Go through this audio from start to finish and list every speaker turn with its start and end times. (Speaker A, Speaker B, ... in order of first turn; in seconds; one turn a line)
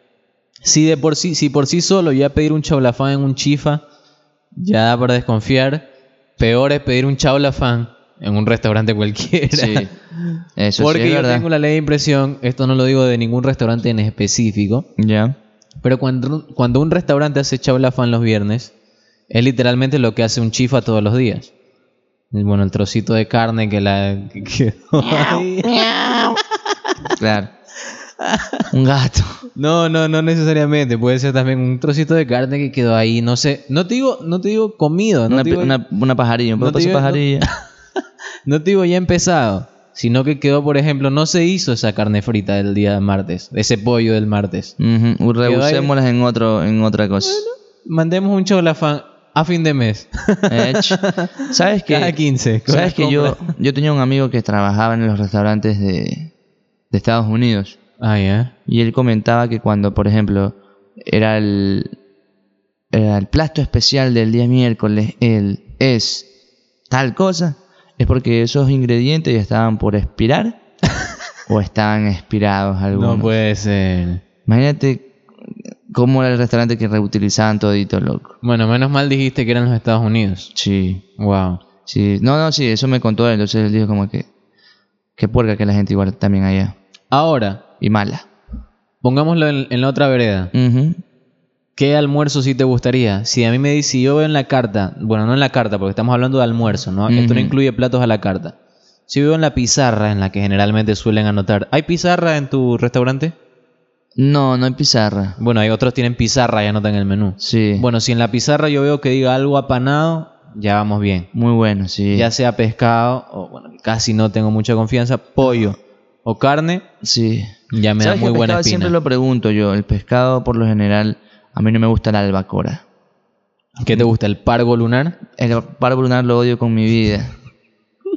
Speaker A: 0.6-3.8
Speaker A: 4.6-5.8
Speaker A: 6.4-14.9
Speaker B: 9.5-9.9
Speaker B: 10.6-11.4
Speaker B: 15.0-15.3
Speaker A: 15.8-18.7
Speaker A: 19.3-21.5
Speaker A: 22.3-26.4
Speaker B: 27.2-27.5
Speaker A: 28.2-28.6
Speaker B: 28.7-29.3
Speaker A: 29.6-35.7
Speaker B: 35.3-37.5
Speaker A: 36.6-37.5
Speaker A: 38.5-44.7
Speaker B: 44.8-47.4
Speaker A: 45.4-45.9
Speaker A: 47.3-53.5
Speaker B: 50.5-52.2
Speaker B: 52.7-56.3
Speaker B: 56.9-57.8
Speaker A: 58.0-58.5
Speaker B: 58.7-61.9
Speaker B: 62.9-66.3
Speaker B: 66.9-70.6
Speaker B: 71.5-73.3
Speaker A: 72.9-74.2
Speaker B: 74.5-75.1
Speaker B: 75.9-78.3
Speaker A: 78.4-80.5
Speaker B: 80.5-81.0
Speaker A: 81.2-81.6
Speaker B: 81.8-84.2
Speaker B: 85.2-86.7
Speaker A: 87.1-87.6
Speaker B: 87.8-88.2
Speaker A: 89.0-90.5
Speaker B: 90.5-91.0
Speaker A: 91.8-98.5
Speaker B: 97.1-97.5
Speaker A: 99.1-103.3
Speaker B: 104.2-105.3
Speaker A: 105.4-111.3
Speaker B: 107.4-107.8
Speaker B: 111.3-112.3
Speaker A: 112.1-116.8
Speaker B: 117.0-122.8
Speaker A: 117.7-118.9
Speaker A: 123.8-125.2
Speaker B: 125.4-127.3